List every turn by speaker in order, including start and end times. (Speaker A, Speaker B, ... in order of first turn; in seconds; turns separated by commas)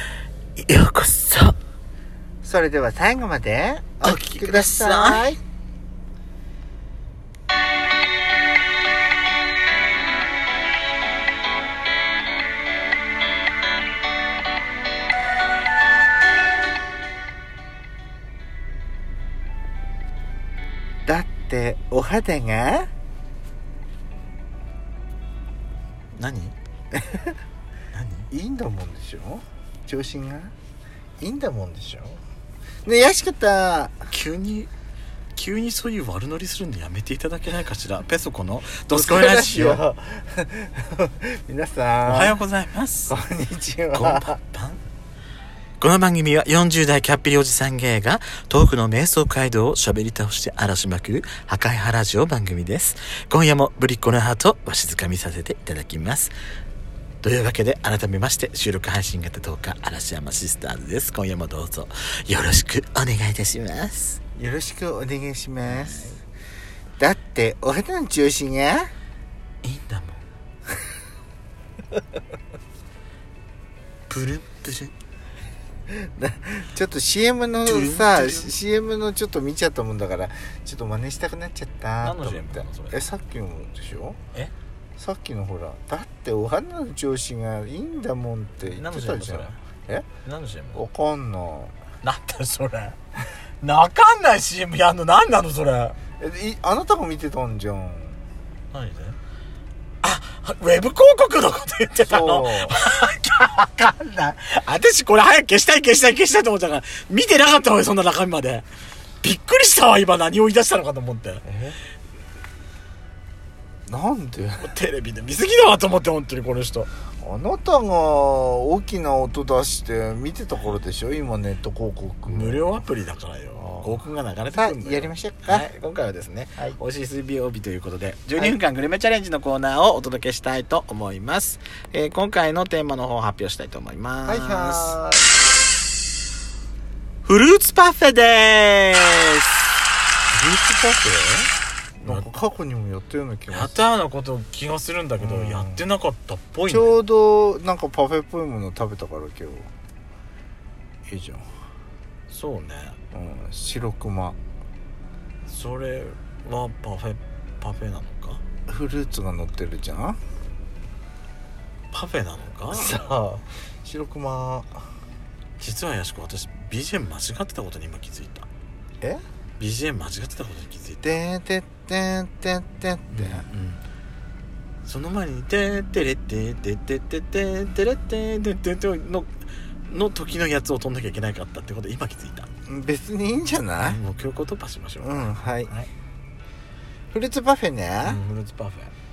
Speaker A: 0.6-1.6, Speaker B: 2.4-5.4, Speaker A: 4.0-5.3, Speaker B: 21.1-22.9, Speaker A: 26.2-26.6, Speaker B: 26.9-27.4, Speaker A: 27.9-28.3, Speaker B: 28.3-30.5, Speaker B: 31.2-32.2, Speaker B: 32.9-34.0, Speaker A: 34.1-34.7, Speaker A: 35.4-39.8, Speaker B: 38.9-42.4, Speaker A: 42.1-43.2, Speaker B: 43.1-44.4, Speaker A: 43.9-44.8, Speaker A: 45.8-56.3, Speaker A: 57.2-64.2, Speaker B: 64.4-66.2, Speaker A: 65.6-66.2, Speaker B: 67.0-68.9, Speaker A: 69.6-70.2, Speaker A: 74.1-74.9, Speaker B: 75.9-84.2, Speaker A: 77.7-78.5, Speaker A: 82.0-83.0, Speaker B: 85.0-90.1, Speaker A: 88.7-89.6, Speaker A: 90.2-90.8, Speaker B: 90.8-91.7, Speaker A: 92.0-93.0, Speaker A: 93.6-96.0, Speaker B: 96.2-98.2, Speaker A: 98.7-99.2, Speaker A: 100.0-108.7, Speaker B: 102.0-102.8, Speaker A: 109.2-111.4, Speaker B: 111.4-111.8, Speaker B: 113.9-114.7, Speaker A: 114.6-116.9, Speaker B: 117.2-122.7, Speaker A: 122.3-135.0, Speaker B: 123.6-125.7, Speaker B: 134.3-135.2, Speaker A: 137.2-139.5, Speaker B: 140.3-141.5, Speaker A: 142.0-142.3, Speaker B: 142.0-143.8, Speaker A: 143.5-146.9, Speaker B: 145.2-145.8, Speaker B: 146.7-149.7, Speaker B: 151.1-151.5, Speaker A: 152.3-153.0, Speaker B: 153.1-154.4, Speaker A: 155.5-158.4, Speaker B: 158.7-160.2, Speaker A: 161.9-163.1, Speaker B: 162.7-164.8, Speaker A: 165.6-168.5, Speaker A: 169.6-171.1, Speaker B: 171.0-173.5, Speaker A: 173.1-173.8, Speaker A: 174.8-179.3, Speaker A: 179.9-182.5, Speaker B: 182.7-184.0, Speaker A: 183.8-185.9, Speaker B: 185.0-185.7, Speaker B: 187.1-188.2, Speaker A: 188.0-188.9